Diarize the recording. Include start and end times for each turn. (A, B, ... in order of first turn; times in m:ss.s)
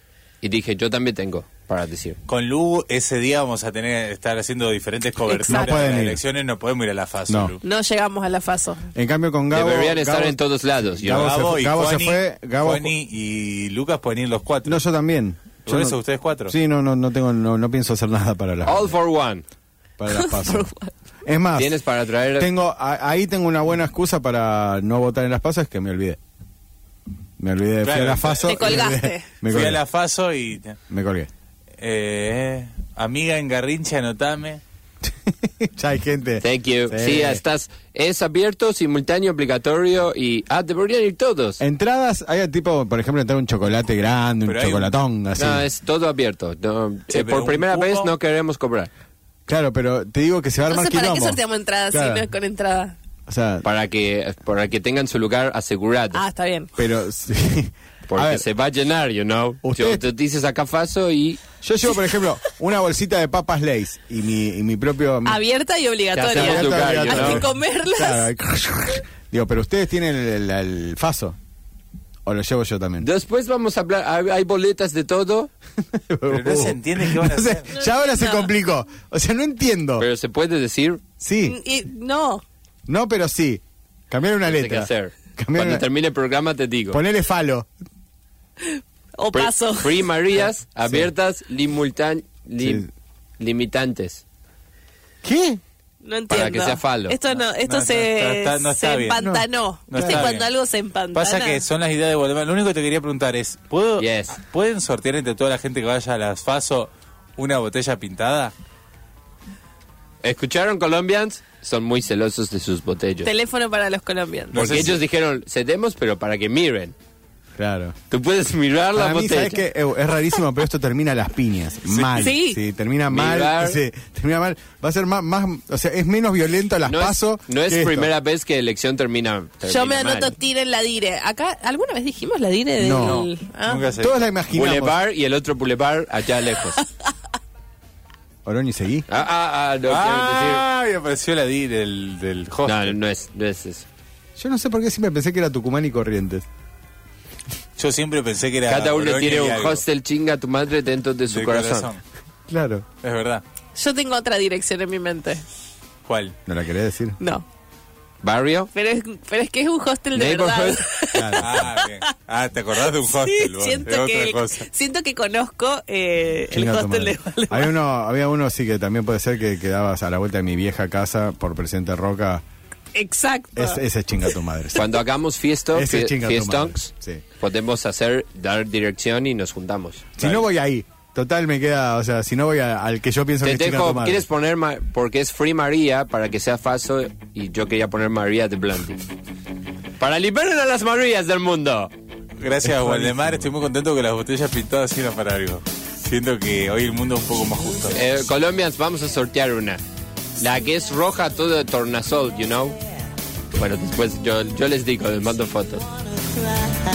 0:00.4-0:02.2 A
0:02.3-0:07.6 B
0:05.3-0:05.9 C
0:05.5-0:06.2 D
0:07.3-0:07.5 D
0:07.6-0:08.8 C
0:08.9-0:12.9 D
0:09.5-0:11.4 A
0:11.1-0:14.8 B
0:14.6-0:18.9 D
0:15.6-0:16.5 B
0:18.6-0:19.4 A
0:20.0-0:20.7 D
0:20.1-0:20.9 C
0:21.2-0:21.8 D
0:21.5-0:22.5 A
0:22.4-0:26.2 D
0:27.4-0:29.8 D
0:27.8-0:28.9 B
0:28.4-0:29.3 C
0:29.4-0:30.8 B
0:30.9-0:31.3 D
0:31.8-0:34.6 B
0:35.0-0:37.4 D
0:36.4-0:41.6 A
0:41.6-0:45.7 D
0:44.4-0:44.9 B
0:45.4-0:48.9 A
0:47.1-0:48.1 B
0:49.5-0:52.3 D
0:50.7-0:53.0 C
0:53.3-0:53.6 D
0:53.6-0:56.2 A
0:56.1-0:56.7 C
0:56.8-0:58.4 D
0:58.1-1:01.4 A
0:59.6-1:00.1 D
1:01.6-1:05.4 D
1:05.2-1:08.3 C
1:06.1-1:07.4 A
1:06.3-1:11.4 D
1:12.2-1:13.0 D
1:13.0-1:15.5 A
1:15.9-1:20.0 D
1:16.3-1:17.7 B
1:17.7-1:18.5 C
1:20.0-1:21.0 A
1:21.2-1:21.6 D
1:21.4-1:22.4 C
1:22.9-1:25.8 D
1:24.4-1:27.0 A
1:26.9-1:27.7 D
1:28.6-1:30.1 C
1:29.3-1:32.9 A
1:32.6-1:32.9 D
1:33.4-1:34.2 A
1:35.2-1:35.6 D
1:36.0-1:41.6 C
1:36.3-1:37.2 A
1:37.3-1:39.2 B
1:39.2-1:40.3 D
1:39.9-1:40.5 B
1:41.1-1:48.5 B
1:44.0-1:44.4 A
1:50.2-1:53.3 A
1:53.2-1:54.7 C
1:54.5-1:55.0 B
1:54.5-1:56.9 A
1:57.6-1:58.0 D
1:58.1-1:59.6 A
1:58.9-2:08.1 D
2:01.9-2:02.3 B
2:02.1-2:02.6 C
2:03.1-2:03.8 A
2:06.8-2:10.4 A
2:09.6-2:13.9 C
2:12.8-2:13.3 D
2:13.6-2:14.3 B
2:14.0-2:15.0 D
2:14.5-2:16.8 A
2:18.4-2:19.0 D
2:19.1-2:20.6 A
2:19.9-2:23.0 B
2:22.6-2:23.8 A
2:24.4-2:26.4 D
2:27.8-2:29.8 B
2:28.6-2:31.9 A
2:31.3-2:32.0 B
2:32.5-2:32.8 D
2:33.0-2:33.4 B
2:33.7-2:35.4 C
2:36.0-2:36.3 B
2:36.5-2:37.2 D
2:37.2-2:37.4 C
2:38.2-2:38.7 A
2:38.7-2:42.1 C
2:40.1-2:40.8 A
2:41.1-2:41.6 D
2:41.4-2:44.6 B
2:43.0-2:47.7 C
2:46.5-2:52.4 D
2:52.9-2:53.8 C
2:53.5-2:54.8 D
2:54.7-2:56.9 A
2:55.7-2:57.2 D
2:57.4-3:00.0 A
3:00.2-3:04.2 D
3:00.2-3:00.4 B
3:03.4-3:09.0 A
3:10.0-3:11.9 A
3:12.4-3:18.0 B
3:12.6-3:13.4 D
3:17.9-3:19.8 A
3:20.4-3:22.8 A
3:23.5-3:25.8 A